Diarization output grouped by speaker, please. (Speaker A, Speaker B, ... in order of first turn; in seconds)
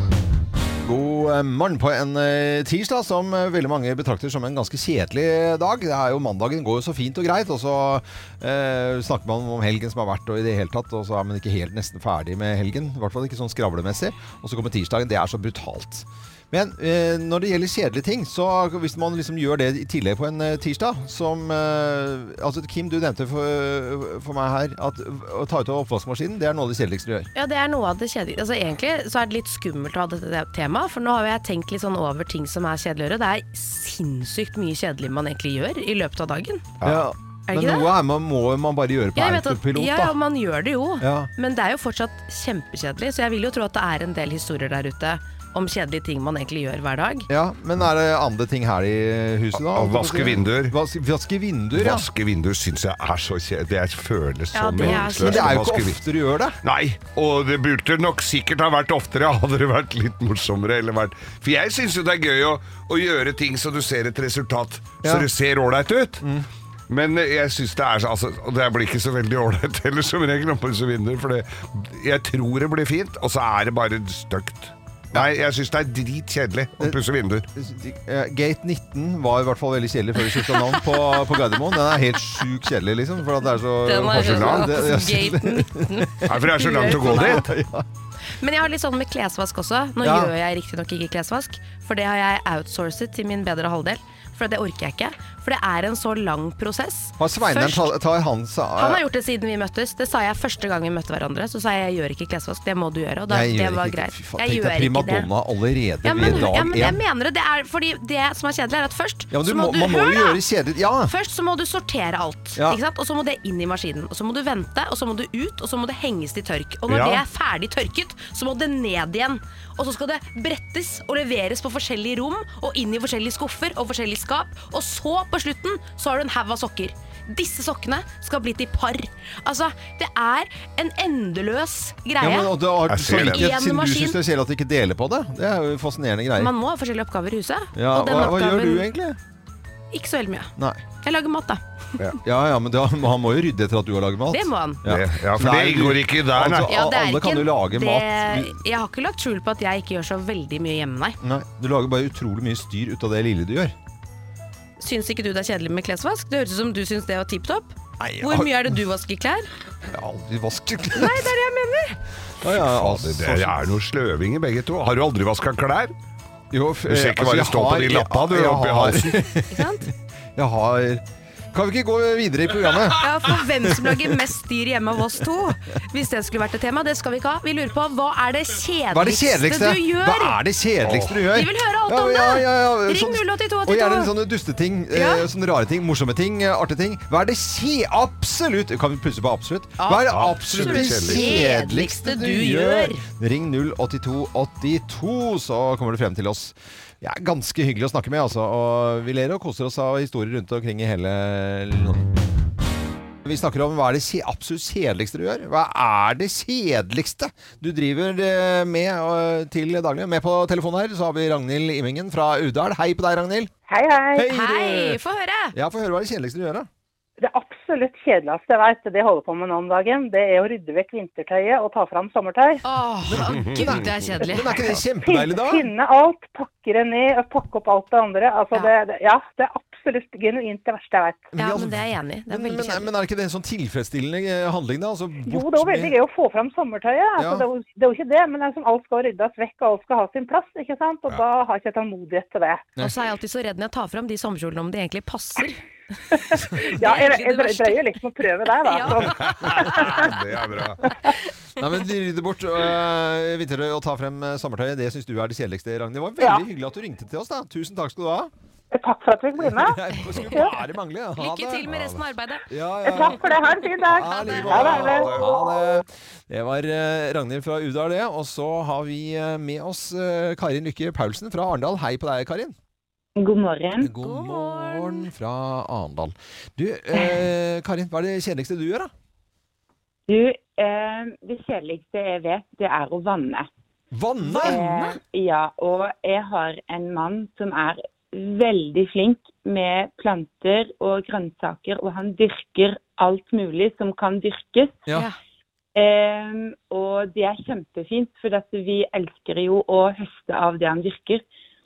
Speaker A: 0.8-27.3, 36.8-40.1, 41.0-41.3, 47.3-52.1, 54.8-56.6, 66.2-66.5, 77.5-87.8, 90.0-90.3, 97.2-99.0, 103.3-107.0, 109.3-111.1, 132.2-136.5, 137.7-139.2, 140.6-140.8, 142.2-148.5, 151.2-153.7, 158.0-158.7, 159.9-161.3, 162.4-163.6, 166.5-169.6, 170.3-173.7, 178.9-202.1, 203.2-213.5, 214.1-215.0, 215.5-216.7, 223.1-225.7, 231.3-235.9, 237.2-237.4, 251.6-258.3, 259.4-261.6, 262.5-263.3, 263.8-272.5, 273.8-278.9, 283.9-285.0
Speaker B: 27.3-36.7, 37.5-37.9, 39.1-47.3, 54.5-55.6, 83.8-87.5, 88.4-97.9, 98.8-105.3, 106.0-110.4, 111.0-132.5, 133.1-134.2, 136.4-138.9, 139.9-141.6, 144.3-144.8, 146.7-151.2, 154.8-159.5, 160.9-162.0, 169.5-169.9, 172.9-180.4, 181.3-184.1, 184.9-185.2, 189.8-193.0, 214.3-215.5, 222.6-224.6, 231.4-232.9, 242.8-245.6, 246.8-247.8, 248.6-250.1, 261.2-262.4, 274.0-275.1
Speaker C: 49.5-50.8, 51.7-56.0, 56.6-66.2, 66.9-77.5, 84.0-84.8, 86.2-87.5, 116.9-117.2, 132.9-133.5, 144.9-146.7, 162.5-165.9, 166.9-169.2, 180.8-181.2, 190.1-191.4, 248.9-250.8, 261.7-262.0, 264.3-265.4
Speaker D: 213.7-214.3, 217.2-222.6, 225.0-231.3, 235.3-242.7, 246.1-250.1, 258.7-260.5, 262.8-265.2
Speaker E: 273.2-273.9, 280.1-283.5, 284.3-294.8, 295.7-301.2